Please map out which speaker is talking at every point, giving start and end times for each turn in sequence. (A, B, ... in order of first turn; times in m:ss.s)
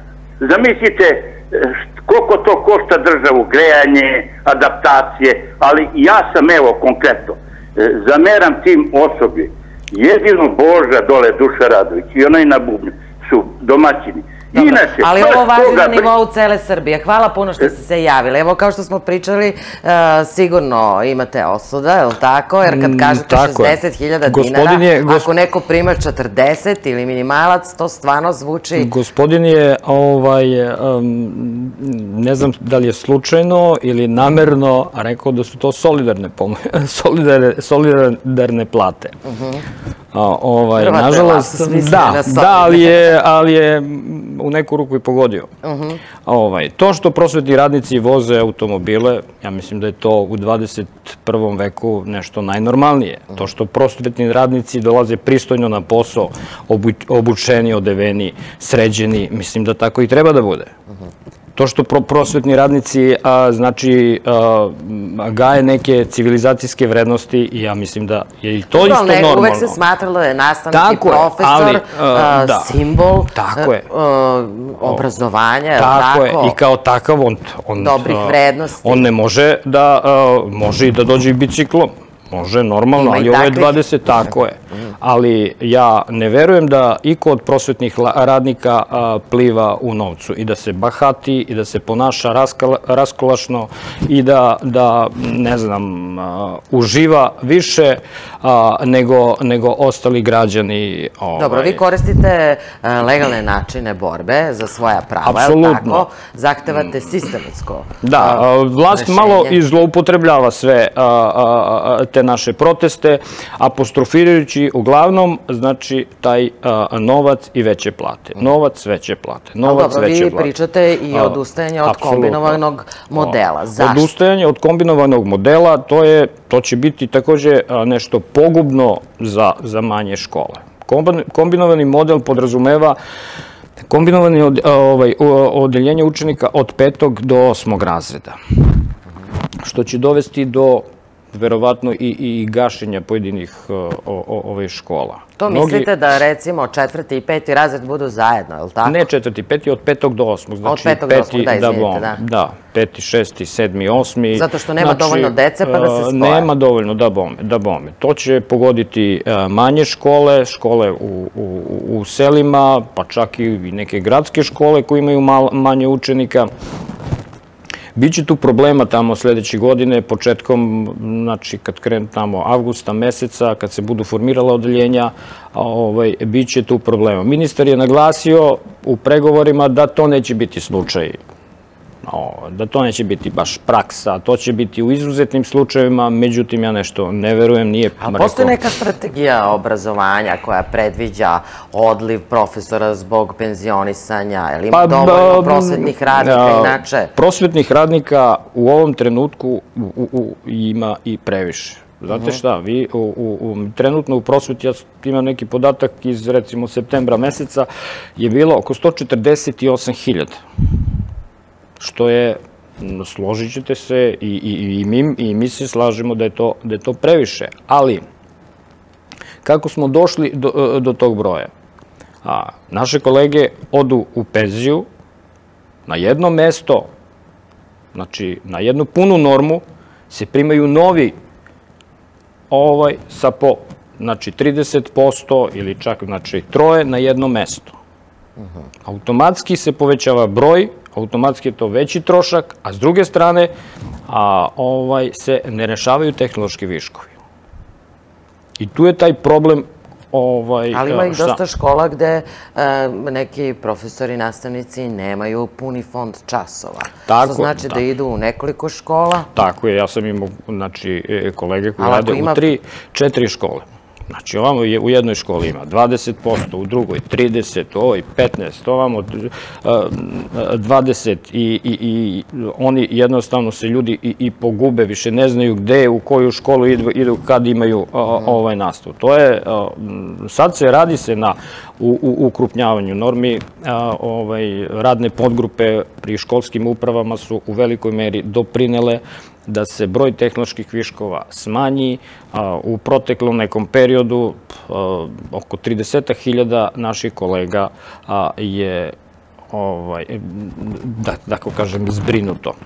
0:00.4-0:16.1 A
0:14.5-0:28.9 B
0:22.6-0:23.8 C
0:24.3-0:25.3 C
0:28.8-0:39.2 C
0:39.3-0:39.6 B
0:40.1-0:45.5 C
0:40.8-0:43.0 B
0:45.6-0:46.0 B
0:46.2-1:00.7 C
1:01.6-1:09.8 C
1:08.7-1:16.6 B
1:10.7-1:13.9 C
1:15.8-1:41.8 C
1:17.8-1:19.0 B
1:23.0-1:23.8 B
1:41.4-1:49.6 B
1:45.2-1:46.1 C
1:48.0-2:00.5 C
1:59.6-2:04.1 B
2:01.1-2:02.6 C
2:03.2-2:13.0 C
2:13.9-2:18.4 C
2:19.6-2:25.9 C
2:25.4-2:29.0 B
2:28.8-2:46.5 C
2:30.6-2:32.2 B
2:34.3-2:36.5 B
2:48.0-3:01.2 C
3:02.0-3:08.5 C
3:08.0-3:17.1 B
3:14.7-3:30.4 C
3:31.8-3:38.1 C
3:39.4-3:41.5 C
3:42.2-3:44.9 C
3:45.9-3:46.9 C
3:47.9-3:51.2 C
3:52.5-3:57.8 C
3:58.8-4:03.5 C
4:04.1-4:07.2 C
4:08.6-4:11.4 C
4:10.7-4:19.3 B
4:17.1-4:17.8 C
4:19.3-4:59.0 C
4:21.8-4:22.5 B
4:59.5-5:02.6 C